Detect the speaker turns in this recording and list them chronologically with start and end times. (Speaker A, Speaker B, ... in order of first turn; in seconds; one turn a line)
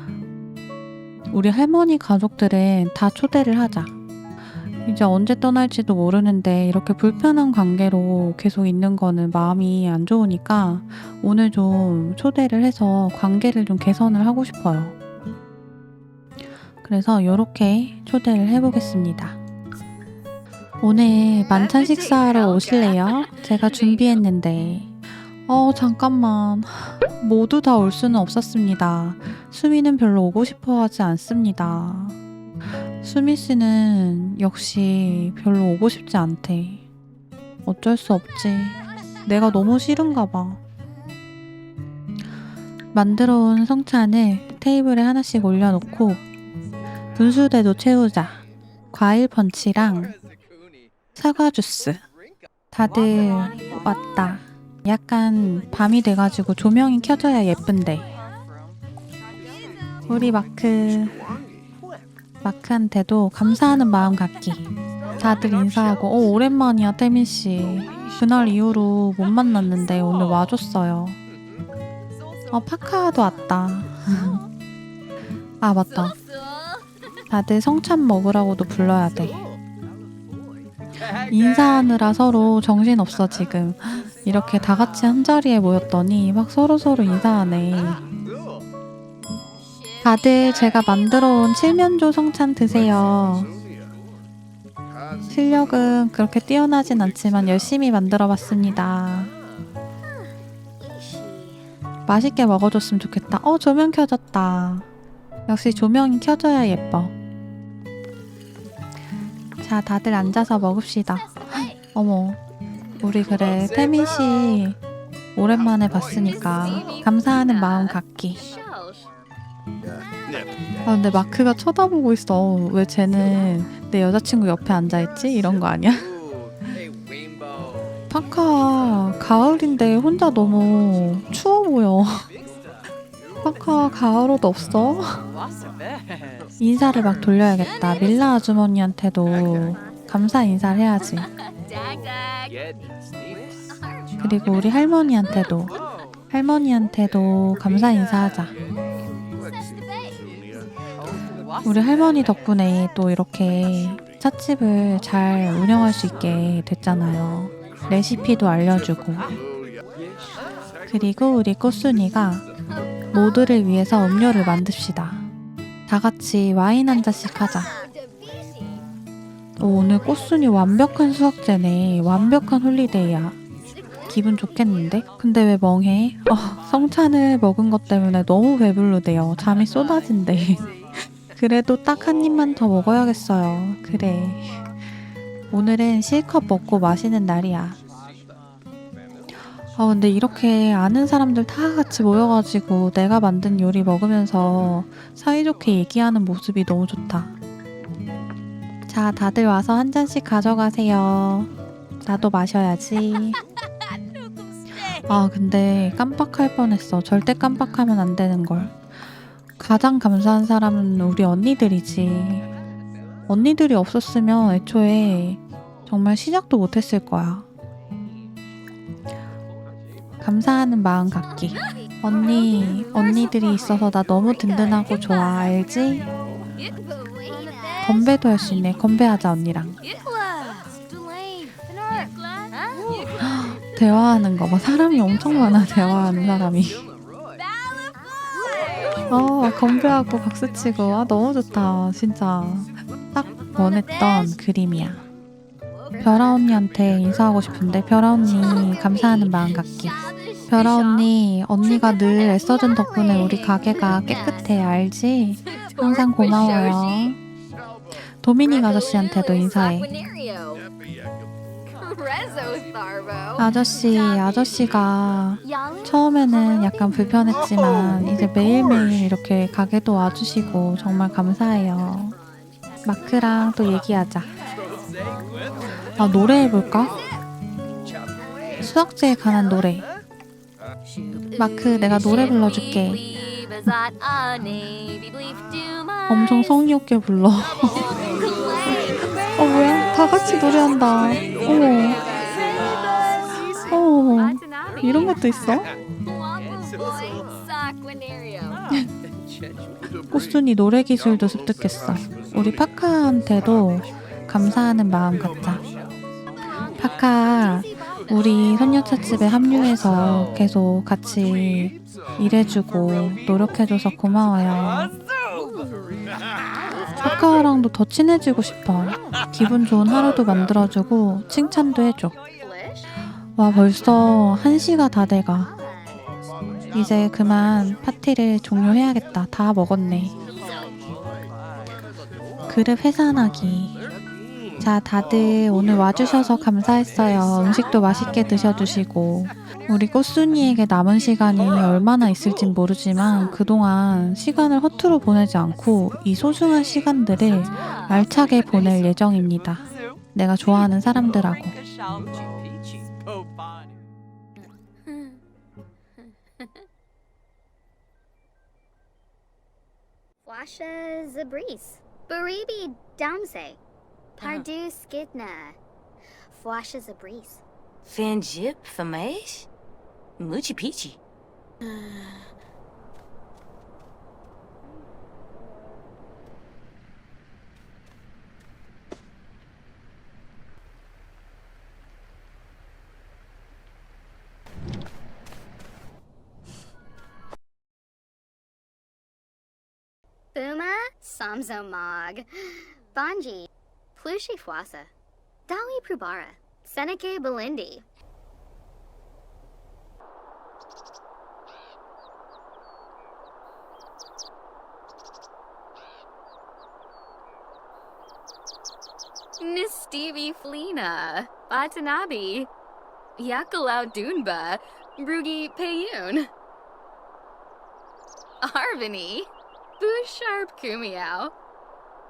Speaker A: 1.3-3.9
Speaker A: 4.8-14.9
Speaker A: 16.8-19.4
Speaker A: 20.8-32.2
Speaker B: 21.4-24.2
Speaker A: 32.8-36.8
Speaker A: 37.7-40.6
Speaker A: 42.9-46.2
Speaker A: 47.1-48.4
Speaker A: 48.9-50.1
Speaker A: 51.2-52.0
Speaker A: 52.7-58.0
Speaker A: 60.1-61.2
Speaker A: 62.4-64.7
Speaker A: 65.2-71.2
Speaker A: 72.5-74.4
Speaker A: 75.6-76.2
Speaker B: 76.1-76.9
Speaker A: 77.3-79.4
Speaker A: 81.1-88.0
Speaker A: 90.0-93.5
Speaker A: 95.3-99.3
Speaker B: 100.8-101.6
Speaker A: 102.1-104.9
Speaker A: 105.5-107.1
Speaker A: 109.6-112.4
Speaker A: 113.0-114.8
Speaker A: 115.4-118.4
Speaker B: 116.9-119.0
Speaker A: 120.9-126.1
Speaker A: 128.1-132.3
Speaker A: 133.4-135.2
Speaker A: 136.6-141.3
Speaker B: 141.6-142.6
Speaker A: 144.2-145.7
Speaker A: 146.3-148.5
Speaker A: 151.7-159.4
Speaker A: 160.9-162.4
Speaker A: 163.1-165.2
Speaker A: 165.9-167.7
Speaker A: 169.6-173.4
Speaker A: 174.1-180.7
Speaker A: 181.3-184.6
Speaker A: 185.5-187.8
Speaker A: 189.8-197.3
Speaker A: 198.9-201.5
Speaker A: 202.0-203.4
Speaker A: 205.0-208.9
Speaker A: 209.6-212.5
Speaker A: 213.3-217.5
Speaker A: 220.2-226.1
Speaker C: 227.2-227.9
Speaker B: 227.3-228.1
Speaker A: 227.8-229.8
Speaker B: 229.8-230.7
Speaker B: 231.3-233.2
Speaker A: 233.2-236.9
Speaker B: 237.4-239.1
Speaker A: 239.1-245.0
Speaker A: 246.0-250.0
Speaker B: 249.8-251.1
Speaker A: 250.5-257.2
Speaker B: 251.8-254.2
Speaker B: 255.4-257.1
Speaker A: 258.1-259.9
Speaker B: 258.9-260.7
Speaker B: 261.7-263.4
Speaker A: 263.4-272.2
Speaker B: 265.5-265.8
Speaker A: 272.9-274.3
Speaker A: 276.0-277.0
Speaker A: 278.6-279.9
Speaker A: 281.4-283.0
Speaker B: 282.4-286.4
Speaker A: 286.1-288.1
Speaker B: 288.1-288.9
Speaker A: 288.7-292.0
Speaker B: 291.9-292.5
Speaker A: 293.7-295.7
Speaker B: 293.9-295.3
Speaker B: 296.1-298.6
Speaker A: 300.1-305.6
Speaker A: 306.8-314.9
Speaker A: 317.0-322.2
Speaker B: 322.4-322.9
Speaker A: 323.4-325.5
Speaker A: 326.7-330.1
Speaker A: 332.5-333.8
Speaker A: 334.6-351.6
Speaker C: 360.3-363.6
Speaker D: 364.2-364.5
Speaker C: 364.2-365.6
Speaker C: 366.3-367.4
Speaker D: 367.9-369.5
Speaker D: 370.2-371.0
Speaker D: 371.6-372.3
Speaker C: 390.4-394.9
Speaker B: 394.0-394.9
Speaker C: 395.5-397.8
Speaker B: 395.9-396.6
Speaker B: 409.4-412.5
Speaker B: 413.2-416.3
Speaker B: 418.4-421.3